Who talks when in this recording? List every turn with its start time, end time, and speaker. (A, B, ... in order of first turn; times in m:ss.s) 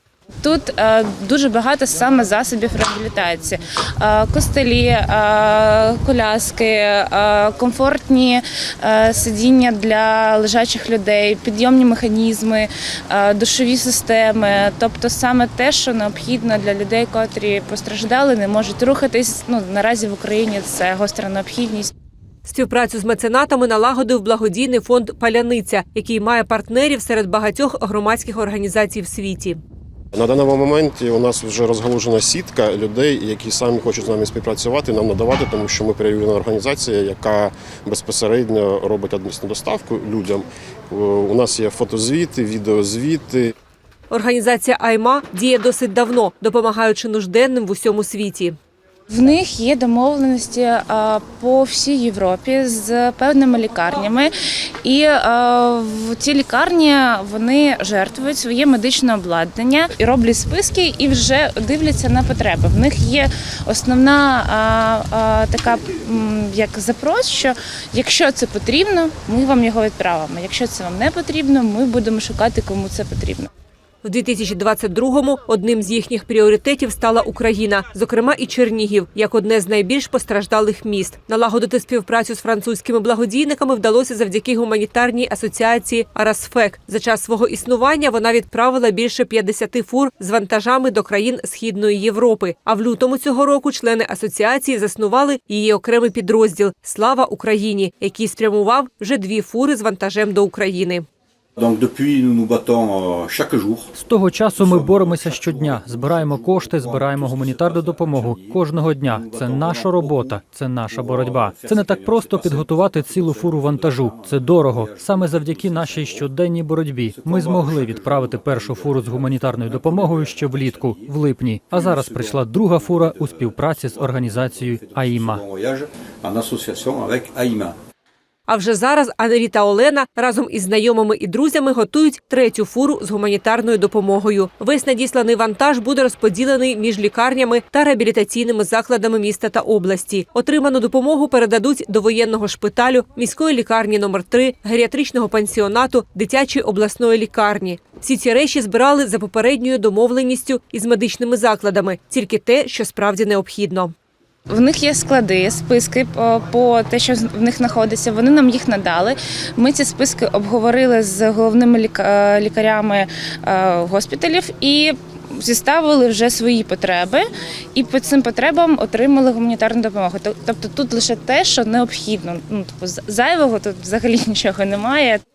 0:00.4-0:21.9 A
0:22.4-0:29.6 B
0:30.1-0:43.4 C
0:44.1-0:48.6 B
0:49.1-0:54.3 A
0:54.8-1:13.5 A
1:14.0-1:41.0 B
1:41.6-1:43.9 D
1:44.0-2:05.4 E
1:44.5-1:56.3 D
1:57.0-2:07.8 D
2:08.5-2:33.9 B
2:34.5-2:47.2 A
2:47.7-2:55.2 A